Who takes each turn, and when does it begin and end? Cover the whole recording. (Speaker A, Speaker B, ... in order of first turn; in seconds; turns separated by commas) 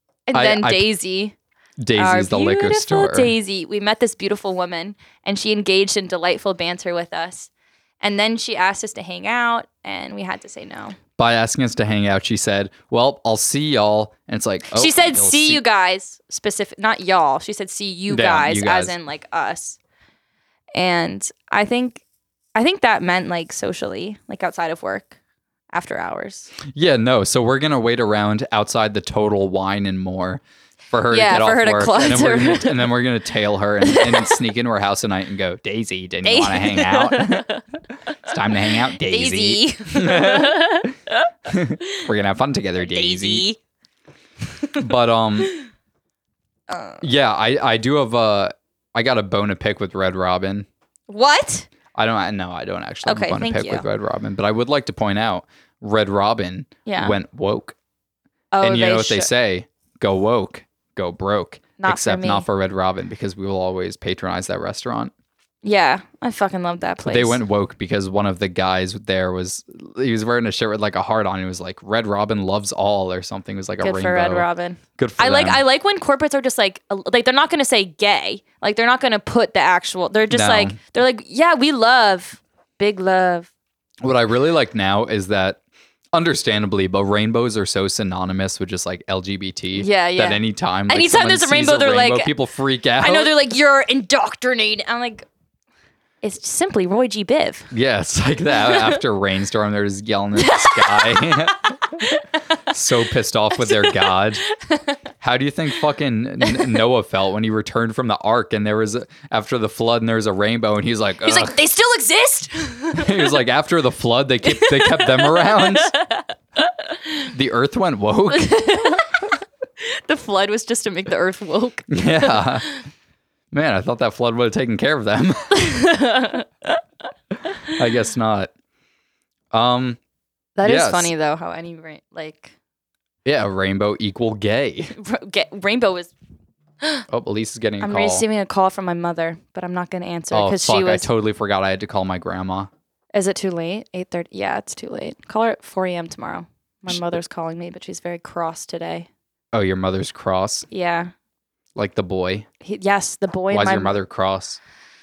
Speaker A: 0.3-1.4, Speaker B: 0.3-0.9, Speaker B: 1.8-3.3, Speaker A: 2.0-7.5, Speaker A: 8.0-11.0, Speaker B: 11.2-15.6, Speaker A: 14.7-19.8, Speaker B: 18.1-19.0, Speaker A: 20.7-22.0, Speaker A: 22.6-25.2, Speaker A: 25.7-26.5, Speaker B: 26.6-37.5, Speaker A: 31.1-32.9, Speaker A: 33.8-34.4, Speaker A: 36.2-37.6, Speaker B: 38.3-40.9, Speaker A: 38.7-41.3, Speaker B: 41.5-43.5, Speaker A: 42.8-43.6, Speaker B: 44.8-45.6, Speaker A: 46.7-47.0, Speaker B: 47.0-50.7, Speaker A: 51.1-51.7, Speaker B: 51.9-57.8, Speaker A: 53.0-53.9, Speaker A: 56.9-57.2, Speaker A: 58.5-59.3, Speaker B: 58.6-65.1, Speaker A: 61.8-62.5, Speaker A: 65.6-67.4, Speaker B: 67.0-75.6, Speaker A: 73.8-83.5, Speaker B: 80.3-80.8, Speaker B: 84.0-85.6, Speaker B: 86.1-93.3, Speaker A: 89.8-92.3, Speaker A: 93.0-95.3, Speaker A: 96.2-97.7, Speaker B: 97.7-102.2, Speaker A: 98.6-99.0, Speaker A: 100.4-102.2, Speaker B: 102.7-104.5, Speaker A: 103.6-105.0, Speaker B: 105.2-111.5, Speaker A: 106.5-106.7, Speaker A: 111.2-113.4, Speaker B: 112.9-115.9, Speaker A: 114.4-117.0, Speaker B: 117.3-119.0, Speaker A: 118.3-119.2, Speaker A: 119.8-122.5, Speaker B: 121.9-122.7, Speaker B: 123.5-125.7, Speaker A: 125.5-126.8, Speaker B: 127.6-128.5, Speaker B: 129.5-130.0, Speaker A: 130.6-132.6, Speaker B: 130.6-131.1, Speaker B: 133.2-135.0, Speaker A: 134.9-136.1, Speaker B: 137.1-138.2, Speaker A: 137.8-141.1, Speaker B: 140.3-142.7, Speaker A: 143.1-149.1, Speaker B: 149.5-150.7, Speaker A: 150.7-151.1, Speaker B: 151.8-152.5, Speaker A: 152.6-154.0, Speaker B: 153.5-154.6